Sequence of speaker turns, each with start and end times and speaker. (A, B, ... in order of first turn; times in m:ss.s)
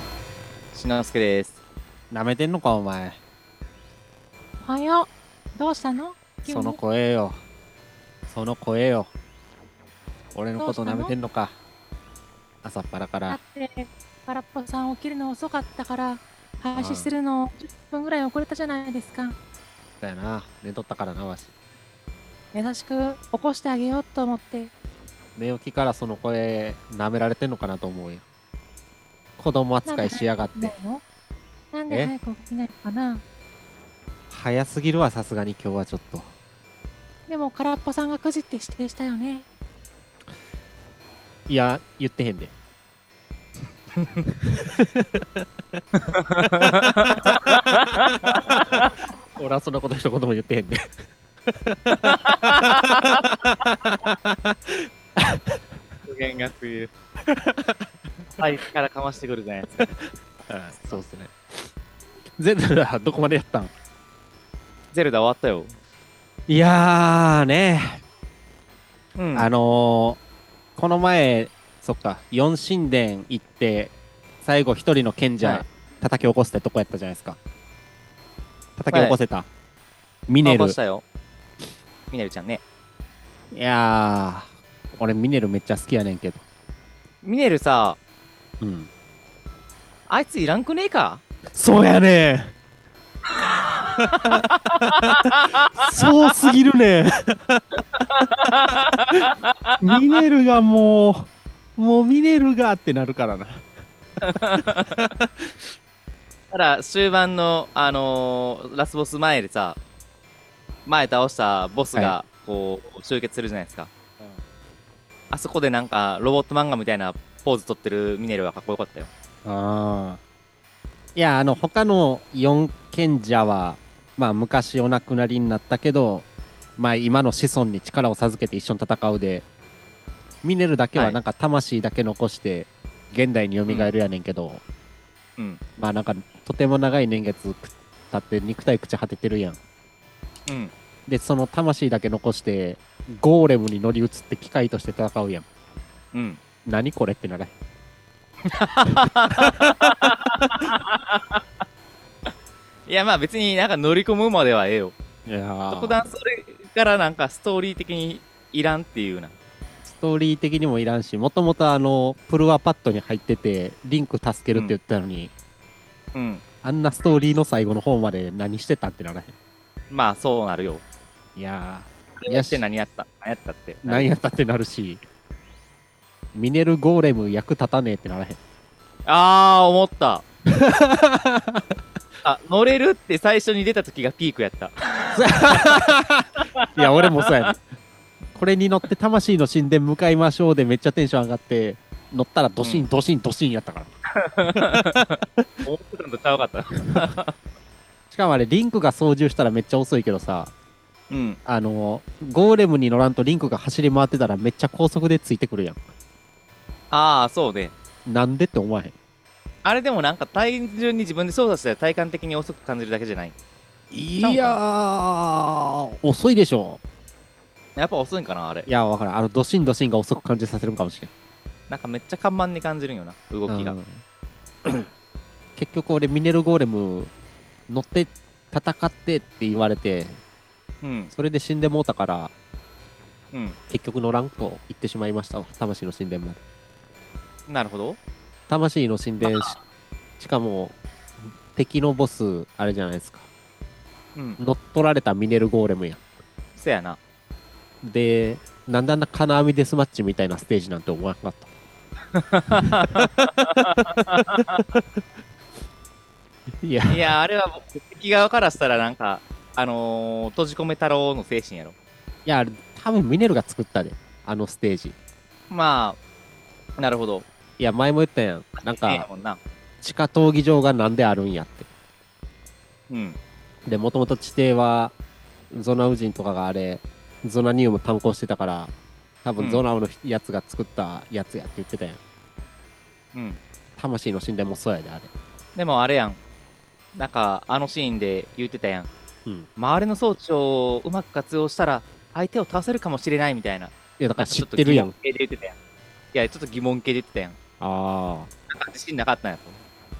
0:00.7-0:01.6 A
0:02.1-0:03.2 B
0:04.6-0:06.8 C
0:06.5-0:07.4 B
0:08.3-0:09.1 B
0:10.3-0:11.5 B
0:10.6-0:11.1 C
0:12.6-0:13.4 B
0:13.3-0:19.4 C
0:16.7-0:17.1 B
0:20.0-0:21.5 B
0:22.5-0:24.7 C
0:25.4-0:28.2 B
0:29.4-0:30.7 B
0:29.9-0:31.0 C
0:31.7-0:33.2 C
0:34.3-0:36.3 B
0:37.3-0:39.4 C
0:41.5-0:42.5 B
0:44.0-0:44.2 A
0:44.4-0:45.8 B
0:46.0-0:48.9 A
0:46.6-0:47.5 B
0:49.4-0:55.6 B
0:52.1-0:53.3 A
0:56.1-0:56.9 A
0:57.2-0:57.9 B
0:58.4-0:59.9 A
0:59.9-1:01.7 B
1:02.4-1:03.7 B
1:04.9-1:05.7 A
1:06.5-1:08.0 B
1:09.2-1:09.5 A
1:09.3-1:10.2 B
1:10.8-1:17.4 B
1:18.8-1:19.5 B
1:18.9-1:19.2 A
1:20.3-1:20.8 B
1:20.4-1:21.0 A
1:22.1-1:22.6 A
1:23.5-1:26.4 B
1:27.2-1:28.0 A
1:28.6-1:28.9 B
1:30.1-1:31.2 A
1:31.5-1:32.5 B
1:33.4-1:35.8 A
1:34.0-1:37.8 B
1:37.9-1:39.9 A
1:39.1-1:43.7 B
1:44.2-1:45.0 A
1:44.4-1:45.6 B
1:46.5-1:49.8 A
1:50.8-1:53.9 A
1:55.3-1:59.1 A
1:59.4-2:00.2 B
2:01.2-2:06.2 B
2:06.8-2:09.4 B
2:10.4-2:14.6 B
2:13.7-2:13.9 A
2:15.8-2:19.6 B
2:20.5-2:20.7 A
2:21.1-2:25.4 B
2:26.1-2:26.4 A
2:26.6-2:27.5 B
2:28.5-2:31.4 A
2:29.4-2:30.0 B
2:32.9-2:34.9 A
2:35.2-2:36.0 B
2:35.7-2:39.3 A
2:39.8-2:45.3 B
2:46.1-2:46.4 A
2:46.6-2:49.3 B
2:49.9-2:50.8 A
2:51.4-2:52.6 B
2:52.2-2:54.1 A
2:53.8-2:55.0 B
2:56.3-2:58.4 B
2:59.1-3:00.2 A
3:00.5-3:01.7 B
3:02.2-3:05.8 A
3:05.1-3:07.6 B
3:06.4-3:07.5 A
3:08.3-3:13.9 B
3:12.6-3:12.8 A
3:14.2-3:17.3 A
3:14.6-3:14.8 B
3:15.4-3:15.6 B
3:18.1-3:20.5 B
3:21.1-3:21.4 A
3:21.4-3:25.8 B
3:26.9-3:27.7 A
3:28.0-3:28.9 B
3:29.6-3:33.3 A
3:33.9-3:36.8 B
3:34.2-3:34.6 A
3:37.8-3:38.7 A
3:38.6-3:41.1 B
3:41.7-3:43.8 A
3:43.5-3:44.0 B
3:45.6-3:47.1 B
3:47.7-3:50.2 B
3:50.8-3:51.1 A
3:51.1-3:52.3 B
3:53.3-3:53.6 A
3:53.7-3:56.4 B
3:57.5-3:58.0 A
3:58.5-3:59.5 B
3:59.2-3:59.6 A
4:00.2-4:00.8 B
4:01.4-4:03.2 B
4:04.1-4:04.4 A
4:04.4-4:06.0 B
4:06.6-4:07.0 A
4:07.8-4:11.5 B
4:12.1-4:14.6 A
4:13.9-4:14.8 B
4:16.6-4:17.0 B
4:16.9-4:21.7 A
4:22.2-4:24.9 B
4:25.5-4:26.0 A
4:26.8-4:27.2 A
4:27.6-4:29.0 B
4:28.7-4:29.4 A
4:29.8-4:31.7 B
4:32.9-4:33.2 A
4:33.6-4:34.9 B
4:35.5-4:38.7 B
4:39.2-4:42.0 B
4:39.4-4:39.6 A
4:43.1-4:43.4 A
4:43.8-4:45.1 B
4:45.6-4:46.2 A
4:46.9-4:48.9 A
4:49.6-4:55.6 A
4:54.0-4:54.9 B
4:56.1-4:57.4 A
4:57.6-4:58.3 B
4:58.5-4:59.6 A